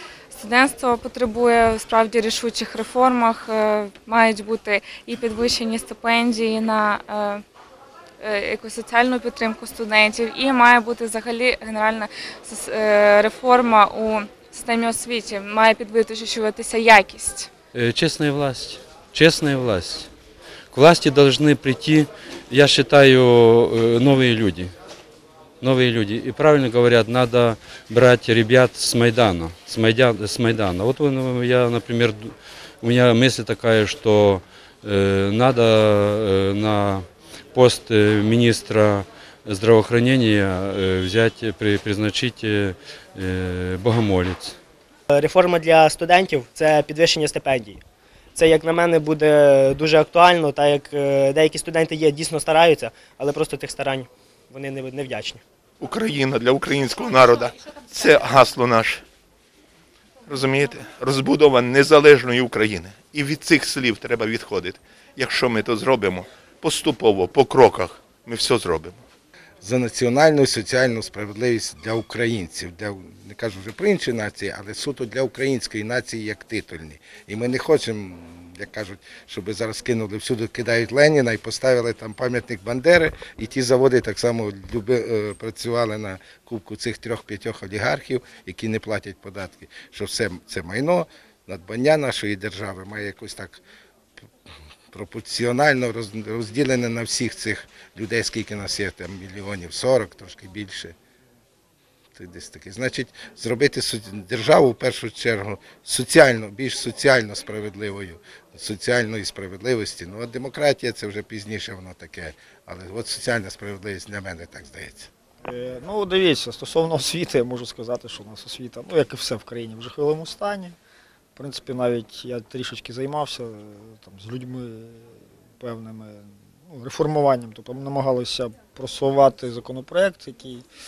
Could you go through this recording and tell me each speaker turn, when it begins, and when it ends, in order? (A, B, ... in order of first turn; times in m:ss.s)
0:00.3-0:07.4 A
0:08.2-0:17.5 A
0:17.7-0:20.1 B
0:20.7-0:24.7 B
0:25.6-0:44.6 B
0:45.1-0:47.8 C
0:48.4-0:55.4 C
0:55.8-0:59.0 D
1:00.3-1:09.0 D
1:09.6-1:33.6 E
1:34.9-1:41.0 E
1:42.2-1:55.1 E
1:55.4-2:00.8 F
2:01.4-2:10.7 F